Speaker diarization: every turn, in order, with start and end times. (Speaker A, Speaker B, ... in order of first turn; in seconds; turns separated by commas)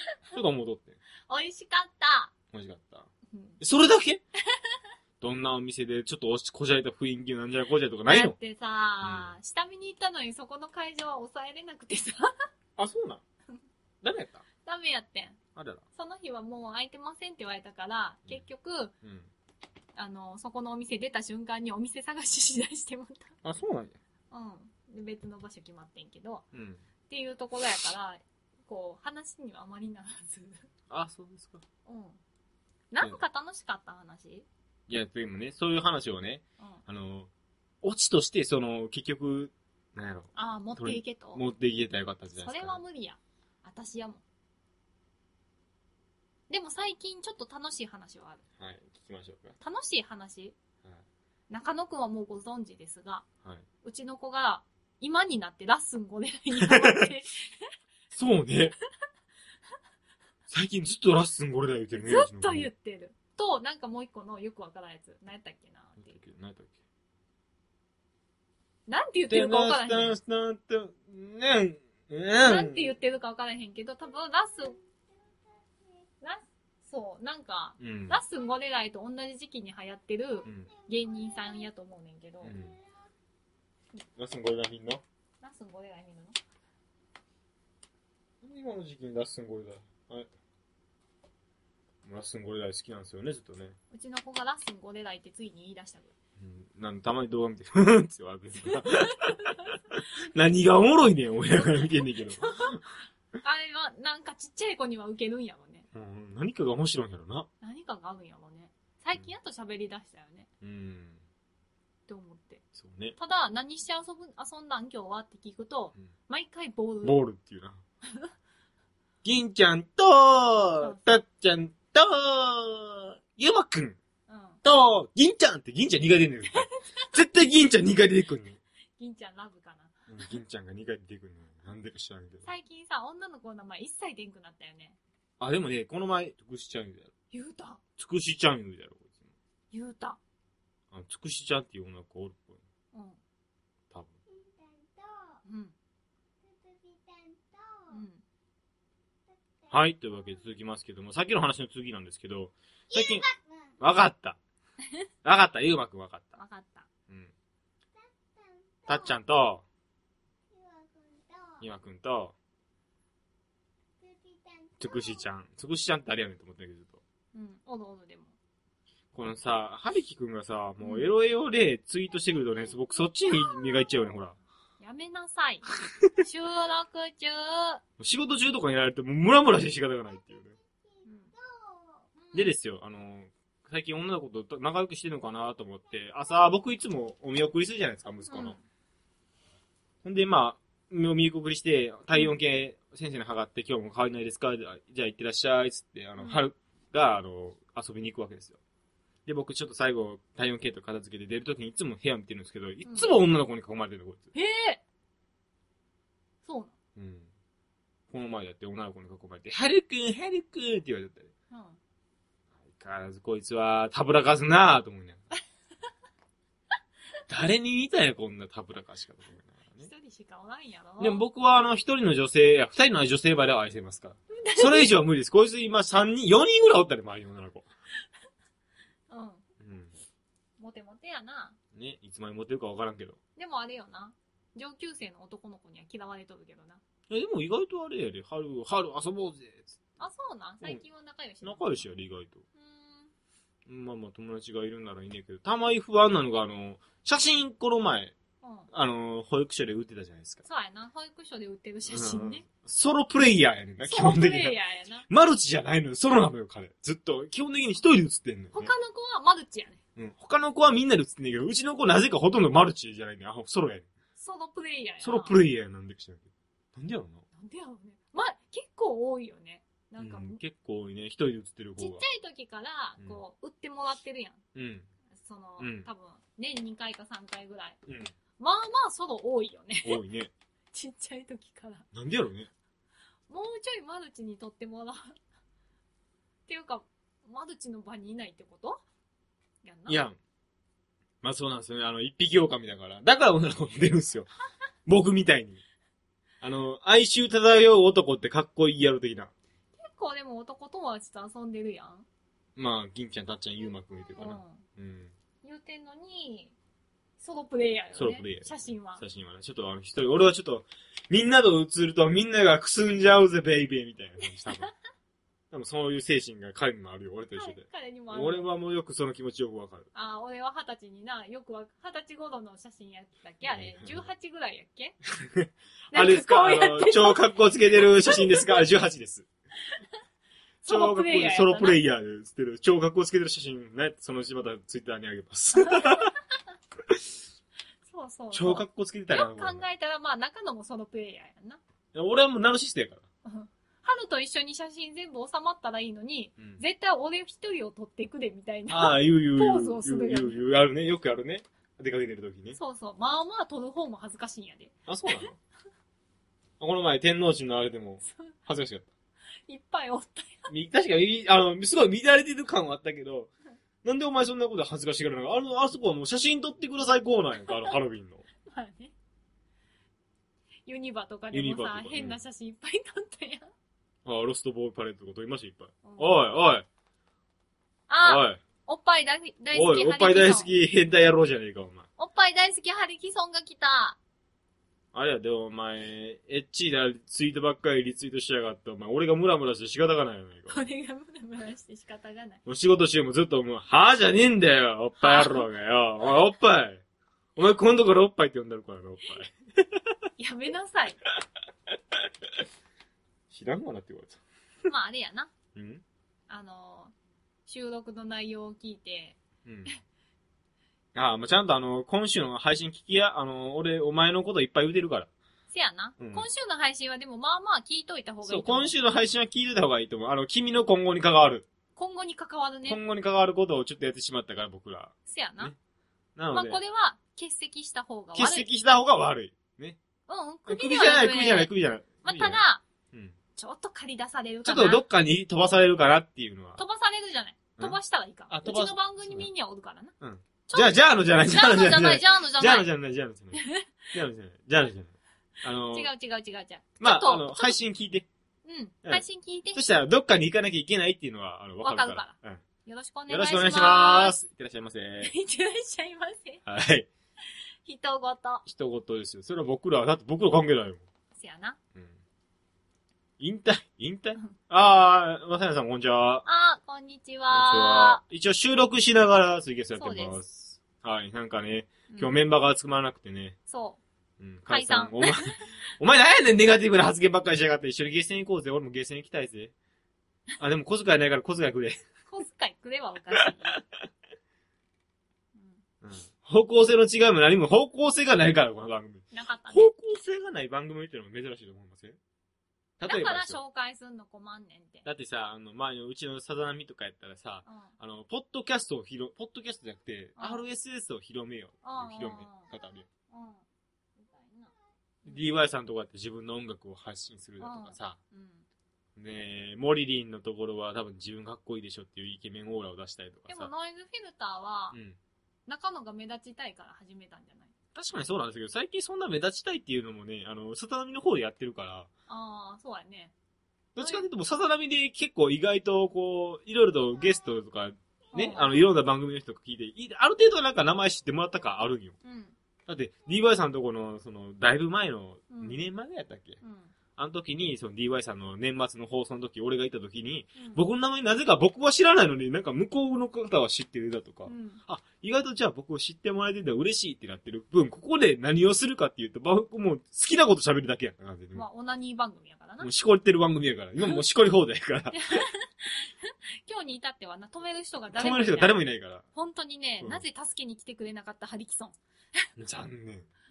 Speaker A: 0.3-1.0, Speaker B: 1.3-2.3, Speaker A: 2.5-3.1, Speaker B: 3.3-3.6, Speaker A: 3.6-4.2, Speaker B: 4.5-4.8, Speaker A: 5.2-8.4, Speaker B: 8.1-12.3, Speaker A: 9.0-9.4, Speaker A: 12.8-13.2, Speaker A: 14.0-14.4, Speaker B: 14.7-15.4, Speaker A: 15.6-15.8, Speaker B: 15.9-18.9, Speaker A: 19.0-19.3, Speaker B: 19.9-23.4, Speaker A: 23.4-24.0, Speaker B: 24.3-26.5, Speaker A: 26.5-26.8, Speaker B: 27.1-30.7, Speaker A: 30.9-31.6, Speaker B: 31.9-32.2, Speaker B: 32.9-34.5, Speaker A: 34.9-37.3, Speaker A: 37.8-42.8, Speaker B: 40.4-41.4, Speaker B: 42.4-44.2, Speaker B: 46.5-48.4, Speaker A: 48.6-49.5, Speaker B: 49.6-50.6, Speaker B: 51.5-53.2, Speaker B: 53.8-57.7, Speaker A: 56.5-57.1, Speaker A: 58.1-58.8, Speaker A: 60.5-62.7, Speaker B: 62.0-66.2, Speaker A: 66.0-66.8, Speaker B: 68.9-70.2, Speaker A: 69.3-72.9, Speaker B: 72.4-74.8, Speaker B: 76.2-82.6, Speaker A: 77.8-78.2, Speaker A: 80.5-80.7, Speaker A: 82.4-82.8, Speaker A: 84.2-85.0, Speaker B: 85.4-86.4, Speaker A: 88.4-90.3, Speaker A: 92.0-93.8, Speaker B: 93.9-96.1, Speaker A: 96.4-102.8, Speaker B: 98.7-99.4, Speaker B: 102.4-102.8, Speaker B: 103.4-105.9, Speaker A: 105.9-107.5, Speaker B: 107.6-110.5, Speaker A: 110.6-111.2, Speaker B: 112.1-112.6, Speaker A: 112.7-113.2, Speaker B: 113.2-117.2, Speaker A: 117.0-117.8, Speaker A: 119.2-124.0, Speaker B: 120.8-121.2, Speaker B: 124.3-124.6, Speaker A: 124.6-128.6, Speaker B: 129.0-130.0, Speaker A: 130.1-132.5, Speaker B: 132.4-135.0, Speaker A: 135.4-137.1, Speaker B: 137.3-137.8, Speaker A: 138.0-139.2, Speaker B: 139.7-140.2, Speaker A: 140.9-142.6, Speaker B: 142.9-143.2, Speaker A: 143.9-144.2, Speaker B: 145.4-145.8, Speaker B: 147.9-148.2, Speaker A: 149.7-154.4, Speaker A: 155.2-156.4, Speaker B: 156.3-156.9, Speaker A: 158.9-159.7, Speaker A: 161.6-162.3, Speaker A: 164.8-167.0, Speaker B: 167.3-168.3, Speaker A: 169.1-174.4, Speaker B: 170.8-171.1, Speaker B: 174.8-177.8, Speaker A: 178.0-180.6, Speaker B: 181.0-181.3, Speaker B: 182.2-182.5, Speaker A: 182.3-188.6, Speaker B: 188.3-188.6, Speaker A: 190.0-198.6, Speaker A: 199.3-204.3, Speaker B: 202.8-203.1, Speaker B: 204.3-204.8, Speaker B: 206.4-206.7, Speaker A: 207.0-207.3, Speaker A: 208.1-211.3, Speaker B: 211.5-211.8, Speaker A: 212.7-215.2, Speaker A: 217.3-219.9, Speaker B: 219.8-221.2, Speaker A: 221.0-227.7, Speaker B: 224.4-224.9, Speaker B: 229.1-229.4, Speaker A: 229.6-229.9, Speaker B: 230.6-231.6, Speaker A: 231.7-233.2, Speaker B: 233.4-236.8, Speaker A: 237.1-239.8, Speaker B: 240.0-241.9, Speaker A: 241.4-242.4, Speaker B: 242.6-243.1, Speaker A: 243.7-248.2, Speaker B: 248.4-248.7, Speaker A: 248.7-250.4, Speaker B: 250.4-252.4, Speaker A: 251.9-254.6, Speaker B: 253.8-255.1, Speaker A: 255.1-258.7, Speaker B: 258.5-259.8, Speaker A: 260.0-263.9, Speaker B: 264.2-265.4, Speaker A: 265.0-267.2, Speaker B: 267.3-270.4, Speaker A: 270.0-272.0, Speaker B: 271.8-274.4, Speaker A: 274.6-274.9, Speaker B: 275.1-277.8, Speaker A: 275.6-275.9, Speaker A: 277.9-278.1, Speaker B: 278.4-280.0, Speaker A: 279.8-280.3, Speaker B: 280.7-281.9, Speaker A: 281.9-282.5, Speaker B: 283.3-285.2, Speaker B: 286.5-288.8, Speaker B: 289.6-290.0, Speaker A: 289.9-290.2, Speaker A: 291.2-294.3, Speaker A: 294.9-295.6, Speaker A: 296.4-299.3, Speaker B: 299.8-302.1, Speaker A: 302.6-305.1, Speaker B: 304.2-304.6, Speaker B: 305.4-306.6, Speaker B: 307.2-309.0, Speaker A: 307.9-314.7, Speaker B: 314.4-314.7, Speaker A: 315.5-319.9, Speaker B: 317.4-318.5, Speaker B: 319.9-325.0, Speaker A: 323.4-324.1, Speaker A: 325.2-329.3, Speaker B: 325.9-328.7, Speaker A: 330.6-336.1, Speaker B: 330.6-331.8, Speaker B: 335.6-336.1, Speaker B: 337.9-341.6, Speaker A: 338.3-339.6, Speaker A: 341.9-343.1, Speaker B: 343.2-350.4, Speaker A: 348.7-352.6, Speaker B: 352.6-355.3, Speaker A: 354.9-355.4, Speaker A: 356.6-358.9, Speaker B: 358.1-358.3, Speaker B: 359.5-360.5, Speaker A: 360.5-363.3, Speaker A: 363.8-368.3, Speaker B: 368.5-368.9, Speaker B: 370.7-373.5, Speaker A: 371.3-372.2, Speaker A: 374.1-376.7, Speaker B: 375.8-376.2, Speaker B: 377.9-380.5, Speaker A: 378.0-378.4, Speaker A: 379.5-381.9, Speaker B: 382.0-384.0, Speaker A: 384.9-390.6, Speaker B: 390.5-392.4, Speaker A: 392.4-396.8, Speaker B: 395.0-395.5, Speaker A: 397.4-399.9, Speaker B: 400.2-401.0, Speaker A: 403.3-404.2, Speaker B: 404.7-405.3, Speaker A: 405.6-405.8, Speaker B: 406.3-406.9, Speaker B: 407.5-409.2, Speaker A: 409.4-409.7, Speaker A: 410.9-415.1, Speaker B: 415.5-418.7, Speaker A: 416.0-416.3, Speaker A: 418.2-421.5, Speaker B: 421.8-422.8, Speaker A: 422.7-425.6, Speaker B: 425.1-425.5, Speaker A: 426.2-426.6, Speaker B: 426.3-428.5, Speaker A: 428.1-429.8, Speaker B: 430.1-431.5, Speaker A: 430.5-433.1, Speaker B: 432.0-432.6, Speaker B: 433.4-434.8, Speaker A: 434.4-436.6, Speaker B: 436.6-439.9, Speaker A: 437.6-439.3, Speaker A: 440.0-443.4, Speaker B: 440.5-442.7, Speaker B: 443.3-443.9, Speaker A: 443.9-445.9, Speaker B: 445.7-447.6, Speaker A: 446.8-448.1, Speaker B: 448.4-449.6, Speaker A: 448.9-452.4, Speaker B: 451.6-454.2, Speaker A: 453.1-455.1, Speaker B: 455.0-456.4, Speaker A: 456.4-456.9, Speaker B: 457.6-458.4, Speaker A: 458.4-460.9, Speaker B: 461.1-461.6, Speaker A: 463.2-466.3, Speaker B: 466.3-468.0, Speaker A: 467.3-473.4, Speaker B: 469.8-470.2, Speaker B: 471.9-472.1, Speaker B: 473.5-473.8, Speaker A: 474.2-479.5, Speaker B: 474.5-475.4, Speaker A: 480.4-481.9, Speaker B: 482.1-483.6, Speaker A: 483.1-483.6, Speaker B: 485.4-485.6, Speaker A: 485.8-492.0, Speaker B: 489.1-489.7, Speaker A: 492.8-493.4, Speaker B: 492.9-494.9, Speaker A: 494.9-502.9, Speaker B: 497.5-497.7, Speaker B: 500.2-500.4, Speaker B: 501.6-502.5, Speaker B: 503.1-503.4, Speaker B: 504.0-504.5, Speaker A: 505.1-508.0, Speaker B: 507.4-508.5, Speaker A: 509.0-513.5, Speaker B: 513.3-514.8, Speaker A: 514.7-515.0, Speaker B: 515.5-517.5, Speaker A: 517.8-521.9, Speaker B: 522.1-523.1, Speaker A: 523.8-532.0, Speaker B: 523.8-524.1, Speaker B: 528.1-528.7, Speaker B: 532.0-532.4, Speaker A: 532.7-536.4, Speaker B: 535.3-535.6, Speaker B: 536.4-536.7, Speaker A: 537.0-551.5, Speaker B: 540.4-540.6, Speaker B: 544.3-544.6, Speaker B: 551.3-552.7, Speaker A: 552.6-555.2, Speaker B: 554.9-558.6, Speaker A: 558.0-559.0, Speaker B: 559.1-561.8, Speaker A: 559.8-560.0, Speaker A: 562.4-563.1